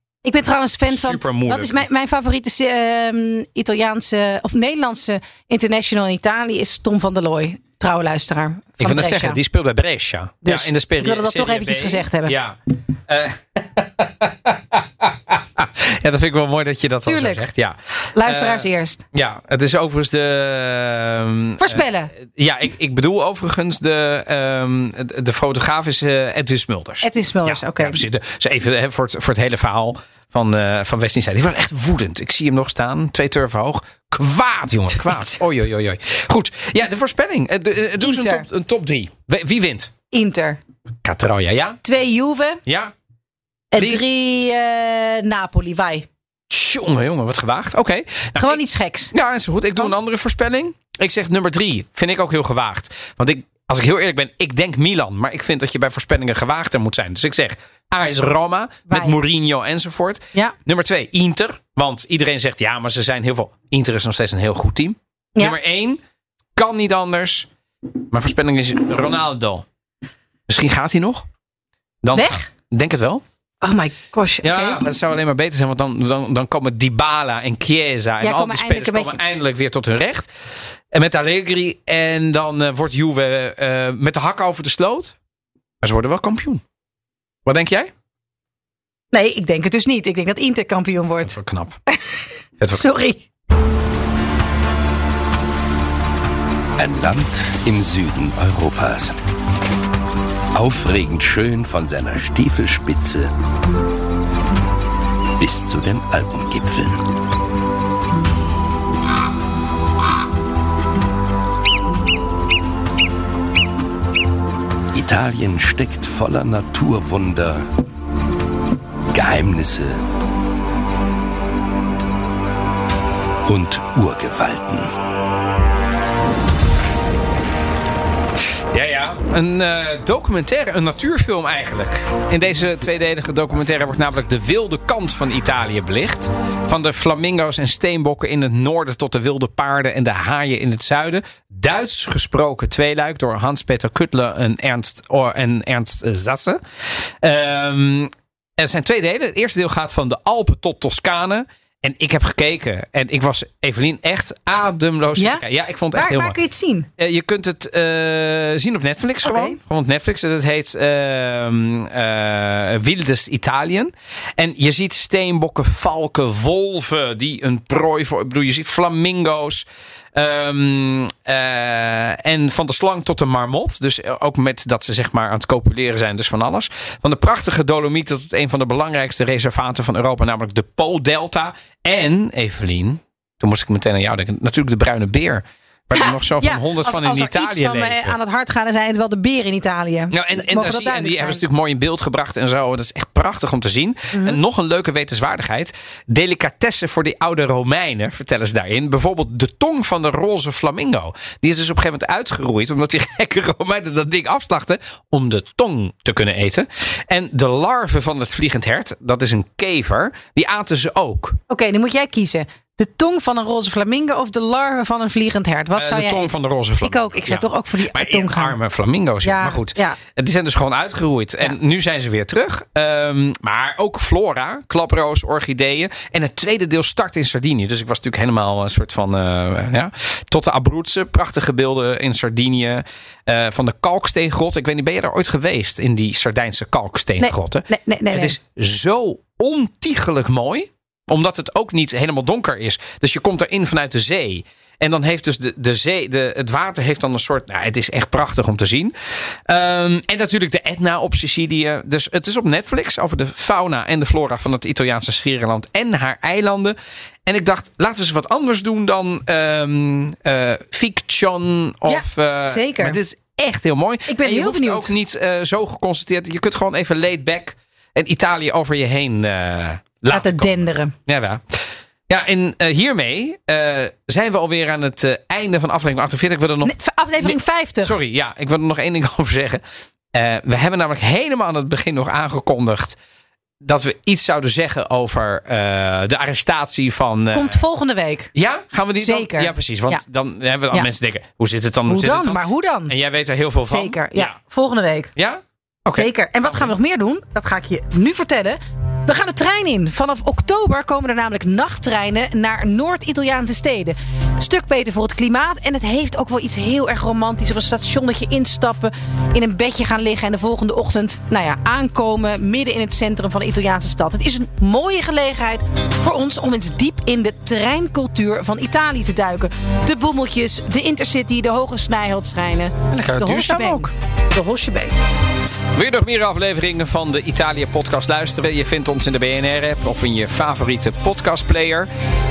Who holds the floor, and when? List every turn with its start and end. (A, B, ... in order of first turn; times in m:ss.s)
0:00.2-0:09.4 A
0:00.9-0:01.8 B
0:08.8-0:39.9 B
0:10.4-0:12.4 A
0:17.0-0:17.4 A
0:18.1-0:19.0 A
0:21.6-0:22.1 A
0:27.0-0:28.0 A
0:38.0-0:38.4 A
0:40.1-0:40.6 A
0:41.0-0:41.8 B
0:41.8-0:42.6 A
0:42.6-0:42.9 B
0:43.7-0:46.0 A
0:43.7-0:44.0 B
0:46.5-1:06.0 B
0:48.4-0:49.1 A
0:58.9-0:59.2 A
1:06.6-1:07.5 B
1:08.1-1:09.6 B
1:10.5-1:11.2 B
1:12.0-1:13.2 B
1:12.1-1:12.5 A
1:13.6-1:14.8 A
1:14.4-1:20.3 B
1:18.2-1:19.2 A
1:20.9-1:25.1 B
1:25.8-1:26.6 B
1:27.4-1:27.9 B
1:29.1-1:31.4 A
1:31.2-1:31.8 B
1:31.9-1:32.2 A
1:32.6-1:32.9 B
1:32.7-1:33.2 A
1:36.8-1:39.2 C
1:40.5-1:43.3 C
1:45.4-1:47.0 C
1:54.9-1:57.6 C
1:59.1-2:00.0 C
2:03.4-2:04.9 C
2:08.4-2:26.6 B
2:27.2-2:36.4 B
2:35.2-2:36.9 A
2:37.0-3:08.2 B
2:39.2-2:39.6 A
3:05.9-3:11.4 A
3:10.1-3:31.4 B
3:14.1-3:14.4 A
3:31.5-3:38.6 A
3:35.8-4:08.9 B
3:39.2-3:40.0 A
3:57.2-3:58.4 A
4:09.5-4:39.6 B
4:21.9-4:23.0 A
4:24.1-4:24.9 A
4:30.1-4:30.9 A
4:36.6-4:38.0 A
4:40.1-4:43.0 B
4:43.6-4:47.6 B
4:47.3-4:48.3 A
4:48.3-4:54.4 B
4:49.0-4:50.0 A
4:51.9-4:52.9 A
4:53.7-4:55.1 A
4:55.2-4:56.7 B
4:55.9-5:24.9 A
5:22.9-5:23.9 B
5:25.7-5:31.9 B